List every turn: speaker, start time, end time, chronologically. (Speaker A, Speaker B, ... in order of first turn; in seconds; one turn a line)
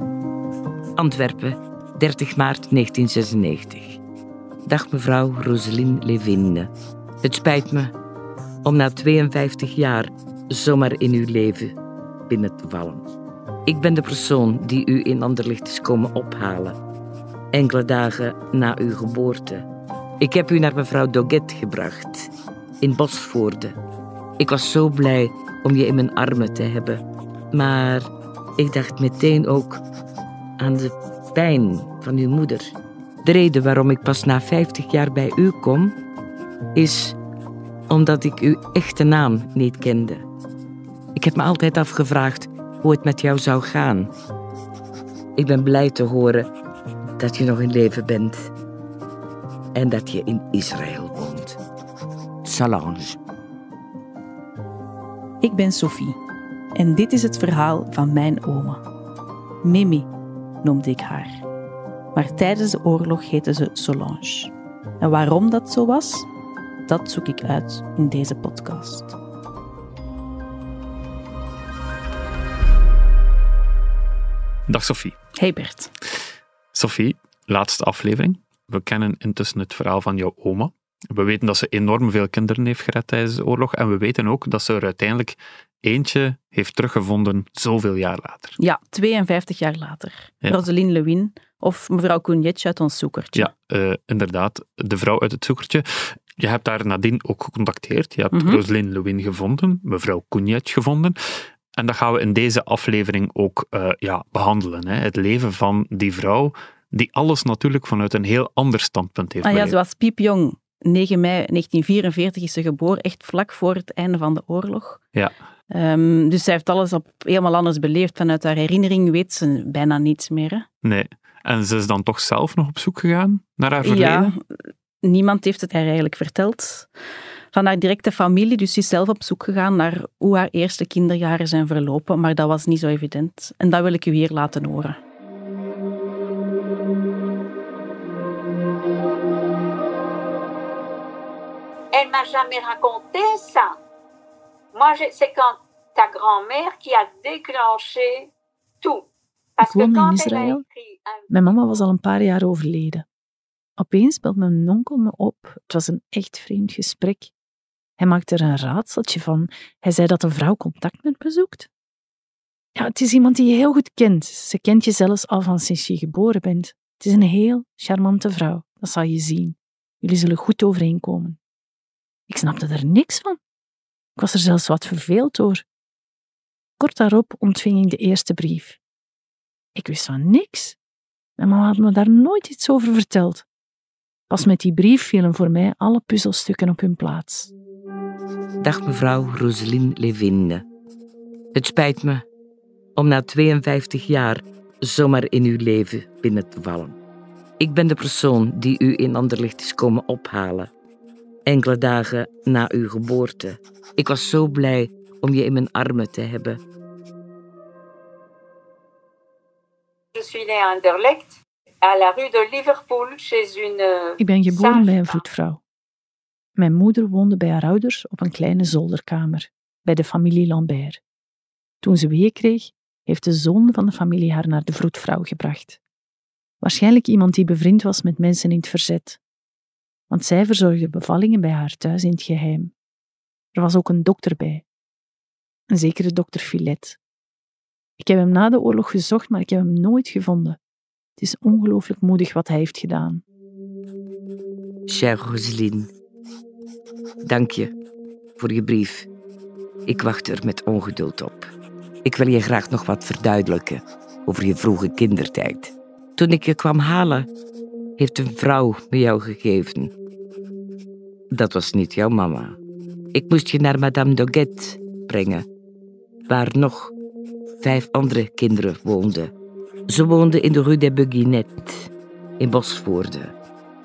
Speaker A: 1.0-4.0
Speaker A: 4.7-6.7
Speaker A: 7.2-7.9
Speaker A: 8.6-11.7
Speaker A: 12.3-13.0
Speaker A: 13.7-16.8
Speaker A: 17.5-19.6
Speaker A: 20.2-22.3
Speaker A: 22.8-23.8
Speaker A: 24.4-27.0
Speaker A: 27.5-29.8
Speaker A: 30.6-32.7
Speaker A: 33.2-35.9
Speaker A: 36.7-37.2
Speaker A: 37.9-40.2
Speaker A: 41.1-44.1
Speaker A: 45.4-46.5
Speaker A: 47.2-48.5
Speaker A: 49.7-51.6
Speaker A: 52.4-53.2
Speaker B: 55.4-56.2
Speaker B: 56.7-58.8
Speaker B: 59.6-60.1
Speaker B: 60.6-61.4
Speaker B: 62.1-66.3
Speaker B: 66.9-69.1
Speaker C: 74.7-75.2
Speaker B: 75.4-75.9
Speaker C: 76.7-88.6
Speaker B: 88.6-93.5
Speaker C: 93.3-109.8
Speaker B: 98.3-98.6
Speaker B: 109.4-115.0
Speaker B: 115.7-120.6
Speaker C: 120.8-124.3
Speaker B: 123.8-126.9
Speaker B: 127.5-135.0
Speaker D: 141.9-143.8
Speaker D: 144.7-148.3
Speaker D: 148.8-151.8
Speaker E: 149.6-150.6
Speaker E: 151.3-153.0
Speaker E: 153.8-157.3
Speaker E: 158.0-161.7
Speaker E: 162.7-171.4
Speaker E: 172.3-173.4
Speaker E: 174.2-175.6
Speaker E: 176.8-178.8
Speaker E: 179.7-180.8
Speaker E: 181.4-183.4
Speaker E: 184.3-187.5
Speaker A: 188.6-190.6
Speaker A: 191.5-192.2
Speaker A: 192.9-196.9
Speaker A: 197.6-200.7
Speaker A: 201.5-206.6
Speaker D: 210.1-215.2
Speaker E: 214.2-215.6
Speaker E: 216.6-221.0
Speaker E: 221.8-225.8
Speaker E: 226.6-229.2
Speaker E: 230.1-232.7
Speaker E: 233.5-234.6
Speaker E: 235.7-237.0
Speaker E: 238.0-240.6
Speaker E: 241.2-243.2
Speaker A: 244.9-245.9
Speaker A: 247.2-247.7
Speaker A: 248.4-249.1
Speaker A: 249.9-251.5
Speaker A: 252.0-257.3
Speaker A: 258.0-259.9
Speaker A: 261.3-262.6
Speaker A: 263.1-265.4
Speaker A: 266.3-266.9
Speaker A: 267.6-269.3
Speaker A: 269.9-273.3